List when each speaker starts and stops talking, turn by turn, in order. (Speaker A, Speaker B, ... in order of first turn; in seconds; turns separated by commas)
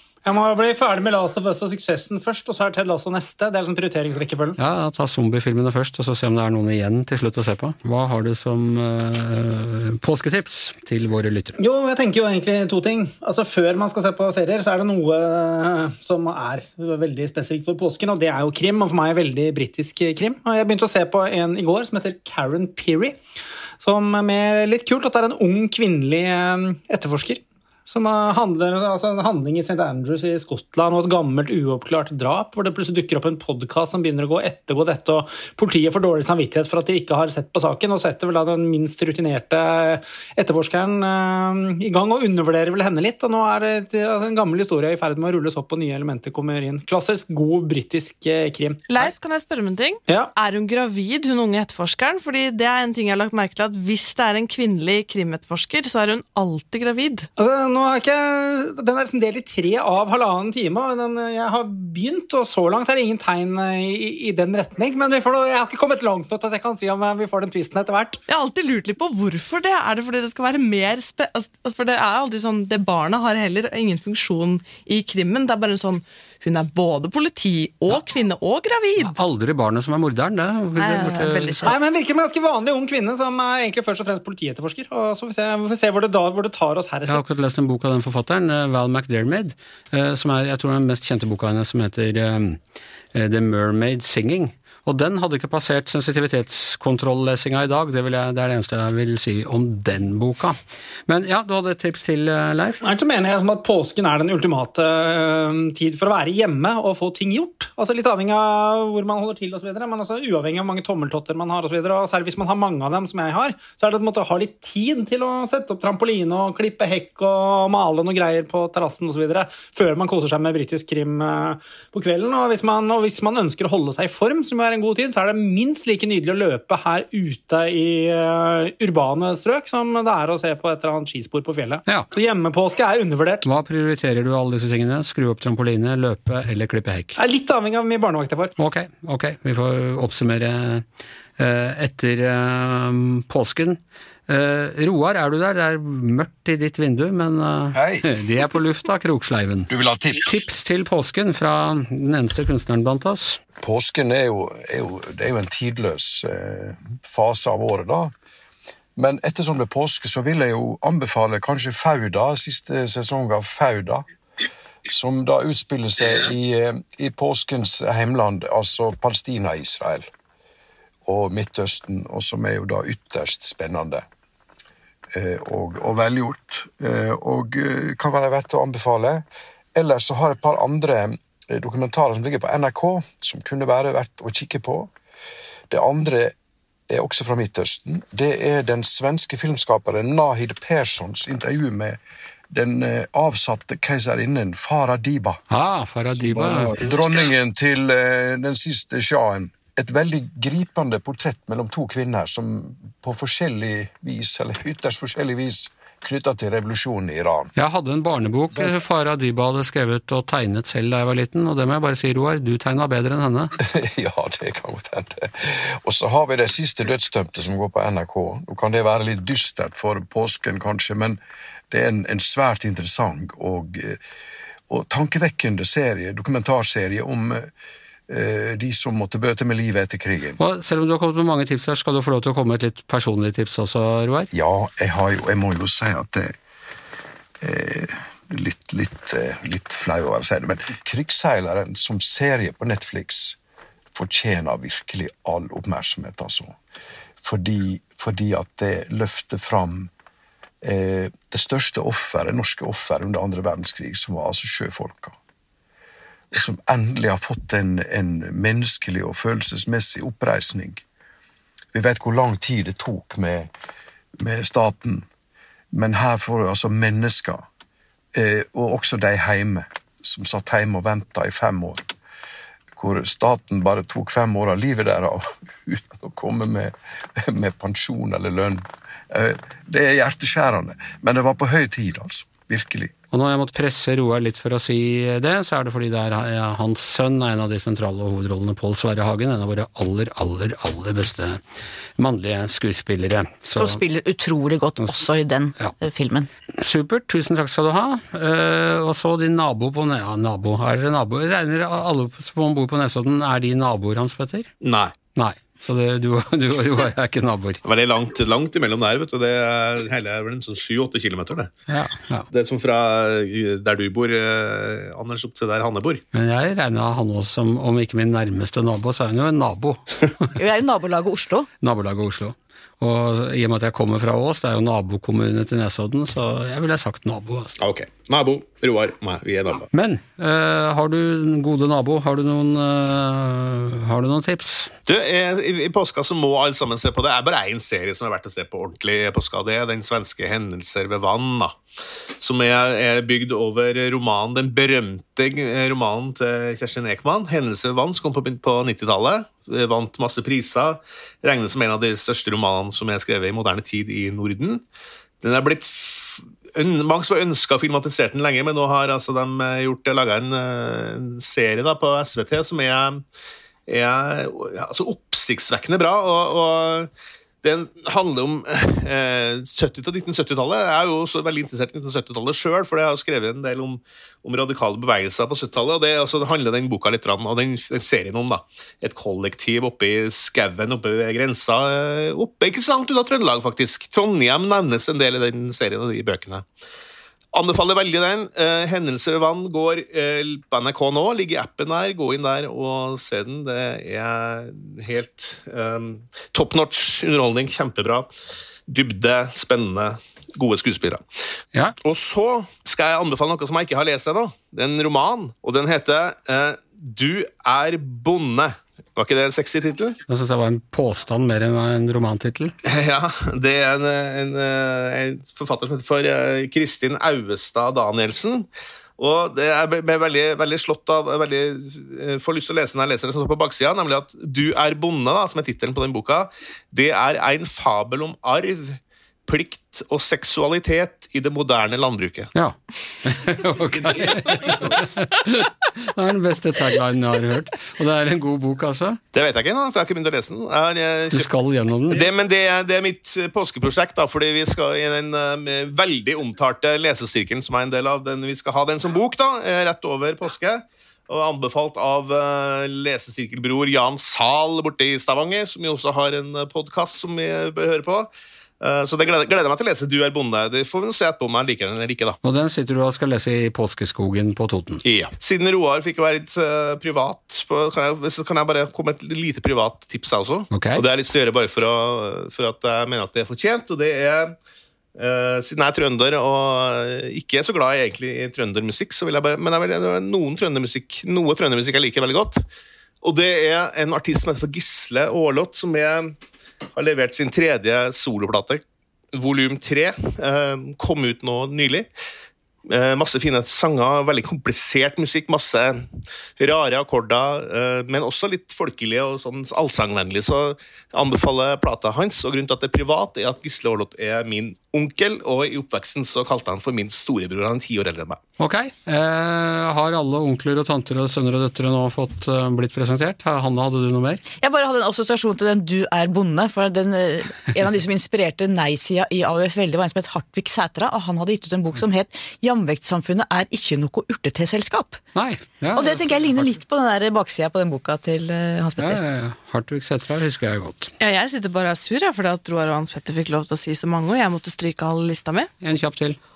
Speaker A: 0.2-4.6, Speaker B: 4.6-11.6, Speaker A: 11.6-23.2, Speaker A: 23.8-49.1, Speaker C: 48.9-57.3, Speaker A: 57.4-68.2, Speaker C: 68.3-79.2, Speaker B: 79.0-81.6, Speaker C: 80.8-81.8, Speaker A: 81.6-87.2, Speaker B: 87.1-92.6, Speaker B: 93.1-102.8, Speaker A: 102.8-133.5, Speaker B: 133.4-137.2, Speaker A: 137.2-138.5, Speaker B: 138.6-140.8, Speaker B: 141.4-153.4, Speaker D: 147.7-148.1, Speaker D: 149.7-150.3, Speaker D: 153.6-158.1, Speaker D: 159.0-164.1, Speaker D: 164.9-170.1, Speaker D: 171.1-174.0, Speaker D: 175.1-184.9, Speaker D: 185.7-186.3, Speaker D: 186.9-192.0, Speaker D: 192.5-195.4, Speaker B: 195.5-196.8, Speaker D: 196.2-207.5, Speaker B: 207.6-213.6, Speaker D: 213.6-224.0, Speaker D: 224.7-227.5, Speaker D: 228.1-230.4, Speaker B: 230.4-234.3, Speaker D: 234.3-236.3, Speaker D: 237.4-243.4, Speaker D: 243.9-246.6, Speaker D: 247.2-249.9, Speaker D: 250.6-255.2, Speaker D: 256.3-260.8, Speaker D: 261.7-263.5, Speaker D: 264.2-265.1, Speaker D: 265.7-267.5, Speaker D: 268.1-271.9, Speaker D: 272.8-282.9, Speaker B: 283.1-291.4, Speaker B: 292.0-293.8, Speaker E: 293.6-296.3, Speaker B: 296.6-304.5, Speaker F: 304.6-304.9, Speaker B: 305.2-307.6, Speaker F: 307.6-311.5, Speaker B: 311.7-312.3, Speaker F: 312.3-316.0, Speaker B: 316.1-320.3, Speaker E: 320.4-321.5, Speaker B: 321.6-327.6, Speaker F: 327.6-329.7, Speaker B: 329.7-334.7, Speaker F: 334.9-341.6, Speaker F: 342.2-354.6, Speaker F: 355.2-363.0, Speaker F: 363.7-366.9, Speaker F: 367.4-386.4, Speaker F: 387.3-398.1, Speaker F: 398.7-401.0, Speaker F: 401.8-410.0, Speaker B: 410.1-412.5, Speaker F: 412.6-432.3, Speaker B: 432.4-439.0, Speaker F: 433.8-434.8, Speaker F: 439.1-441.3, Speaker B: 441.1-442.1, Speaker F: 441.9-462.2, Speaker B: 462.2-464.8, Speaker F: 464.8-474.4, Speaker B: 470.5-470.8, Speaker F: 475.0-482.4, Speaker F: 483.0-486.1, Speaker F: 486.8-488.6, Speaker F: 489.1-491.9, Speaker F: 492.7-508.2, Speaker B: 508.4-514.2, Speaker E: 514.4-525.0, Speaker B: 525.2-526.6, Speaker E: 525.8-529.0, Speaker B: 528.8-530.9, Speaker C: 531.0-535.5, Speaker B: 535.6-536.2